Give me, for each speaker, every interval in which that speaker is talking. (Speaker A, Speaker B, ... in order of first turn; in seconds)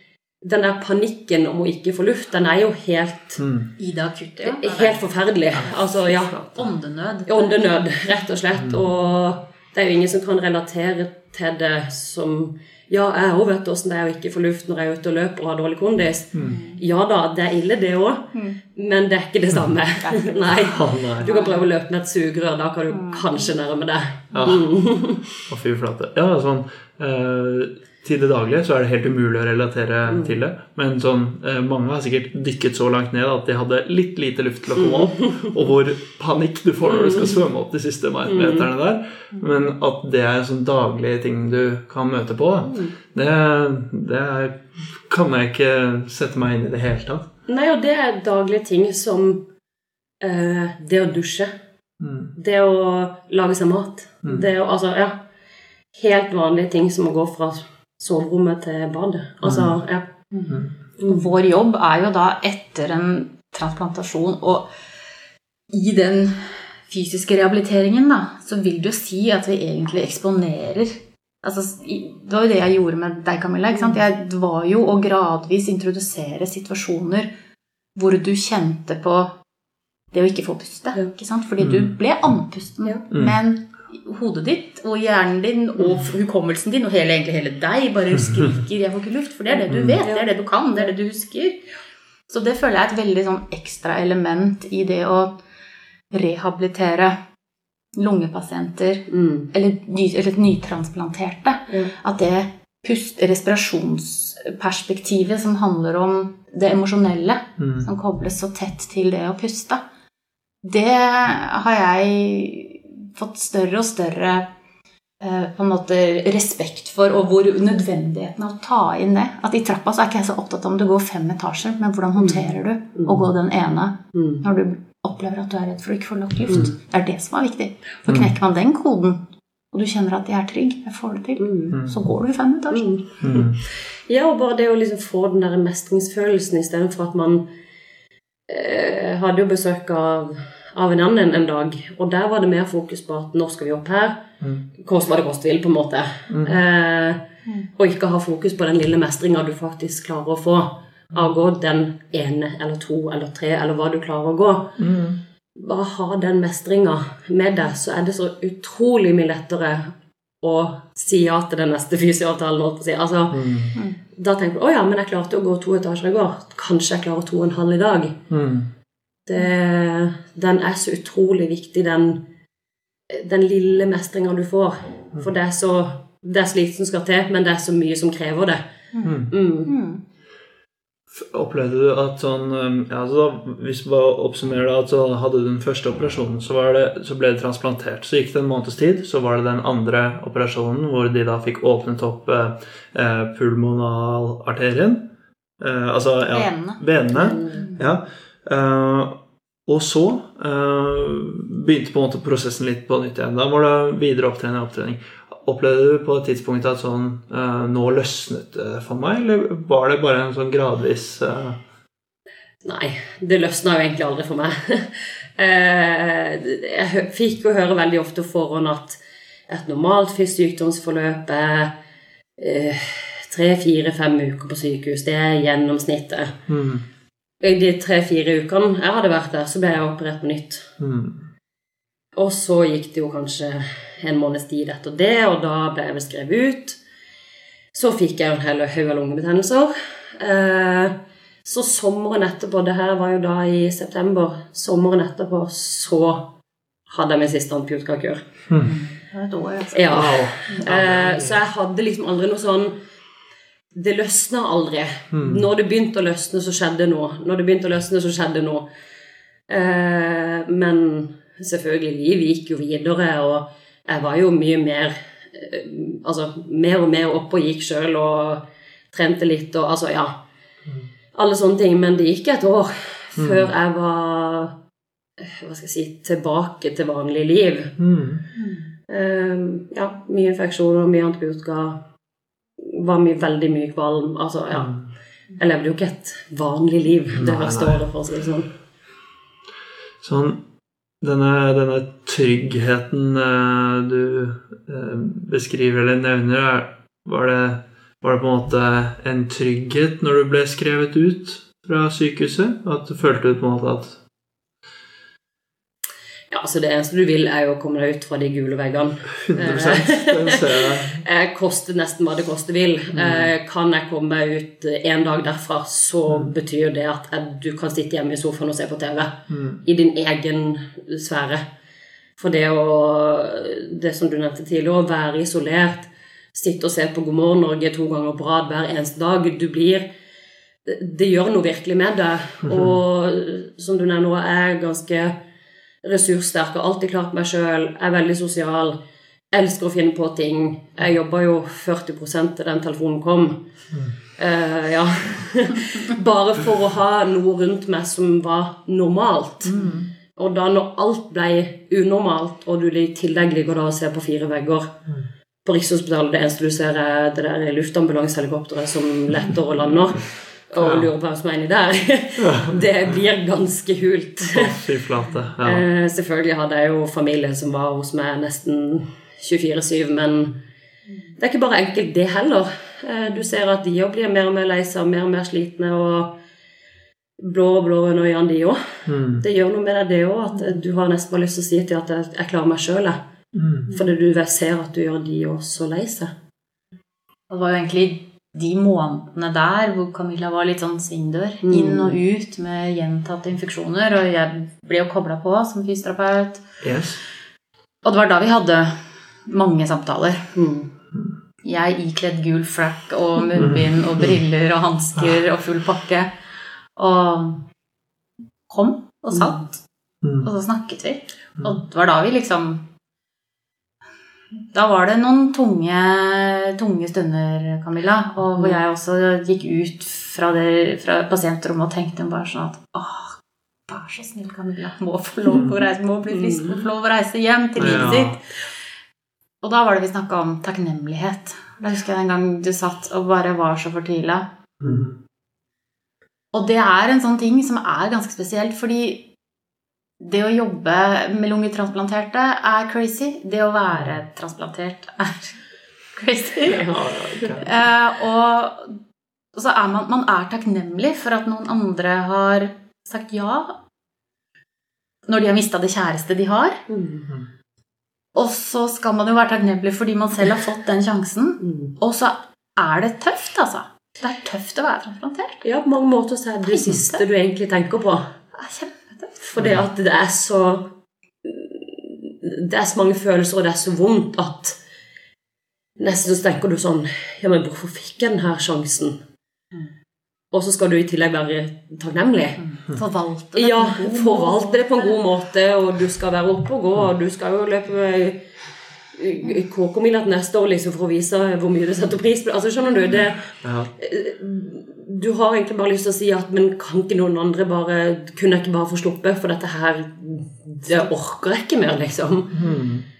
Speaker A: 0.4-3.4, 4.4-6.6, 7.3-25.2, 30.1-30.4, 34.8-35.6, 36.9-37.4, 38.3-38.7, 42.6-43.0, 47.5-49.4, 50.2-51.5, 52.4-55.2, 55.9-60.1, 90.0-90.3, 99.1-99.5, 122.2-123.2, 124.2-124.4, 131.4-131.8, 132.7-137.5, 138.5-144.2, 144.8-147.2, 147.8-154.8, 155.6-168.2, 169.3-172.2, 173.1-178.6, 179.3-179.7, 197.1-197.7, 212.6-219.0, 219.5-221.7, 222.4-226.3, 227.4-230.7, 232.2-236.8, 237.7-246.3, 246.9-248.2, 249.7-252.8, 253.8-258.7, 259.5-270.1, 271.1-274.5, 275.2-277.7, 278.9-281.8, 282.6-284.8, 285.4-288.5, 306.3-321.4, 322.2-329.9, 330.7-335.2, 335.8-338.8, 339.3-343.4, 344.2-349.6, 350.2-354.8, 355.4-364.6, 365.4-370.4, 371.2-376.1, 377.2-383.0, 383.7-386.1, 391.4-392.0, 400.4-400.7, 426.1-426.6, 446.6-447.4, 456.7-457.1, 461.4-461.7, 465.4-468.1, 469.2-470.7, 471.2-474.6, 475.8-479.0, 480.3-482.4, 483.4-488.2, 488.9-502.4
Speaker B: 3.4-3.7, 20.7-21.3, 24.3-24.7, 25.5-47.3, 52.0-52.3, 59.4-59.7, 81.6-81.9, 83.1-83.4, 89.7-90.0, 107.6-107.9, 128.1-128.3, 131.7-132.0, 133.2-133.6, 146.3-146.6, 154.8-155.2, 163.3-163.8, 168.3-168.7, 179.0-179.3, 181.1-195.1, 195.6-211.6, 226.5-226.8, 230.8-231.3, 248.5-248.8, 249.9-251.4, 255.1-255.4, 273.2-273.5, 277.8-278.2, 284.5-284.9, 287.1-287.8, 290.0-290.4, 291.0-304.0, 309.2-311.0, 312.9-313.3, 316.1-316.3, 319.3-319.6, 332.4-332.8, 349.6-349.9, 360.6-360.9, 362.2-362.6, 364.3-365.6, 378.9-379.2, 383.3-383.7, 396.6-397.0, 403.4-404.1, 425.3-425.6, 427.6-428.2, 434.6-434.9, 446.6-447.5, 493.4-493.7, 502.3-502.9
Speaker C: 3.8-5.0, 5.6-7.6, 16.4-16.8, 20.0-21.6, 22.9-23.5, 60.3-64.7, 65.7-77.3, 78.0-79.3, 80.1-91.6, 92.3-95.4, 96.1-97.2, 97.9-109.8, 110.6-114.5, 115.2-132.9, 178.9-180.0, 196.3-196.8, 197.5-197.8, 248.6-250.1, 278.4-278.7, 387.3-396.4, 397.8-400.3, 401.4-406.1, 406.8-407.4, 408.5-409.6, 410.2-412.6, 414.5-428.2, 429.4-434.3, 436.3-439.1, 440.0-445.4, 445.9-446.8, 447.4-448.8, 449.3-453.6, 455.1-456.6, 458.1-465.4, 466.4-467.0, 468.3-469.2, 482.4-485.0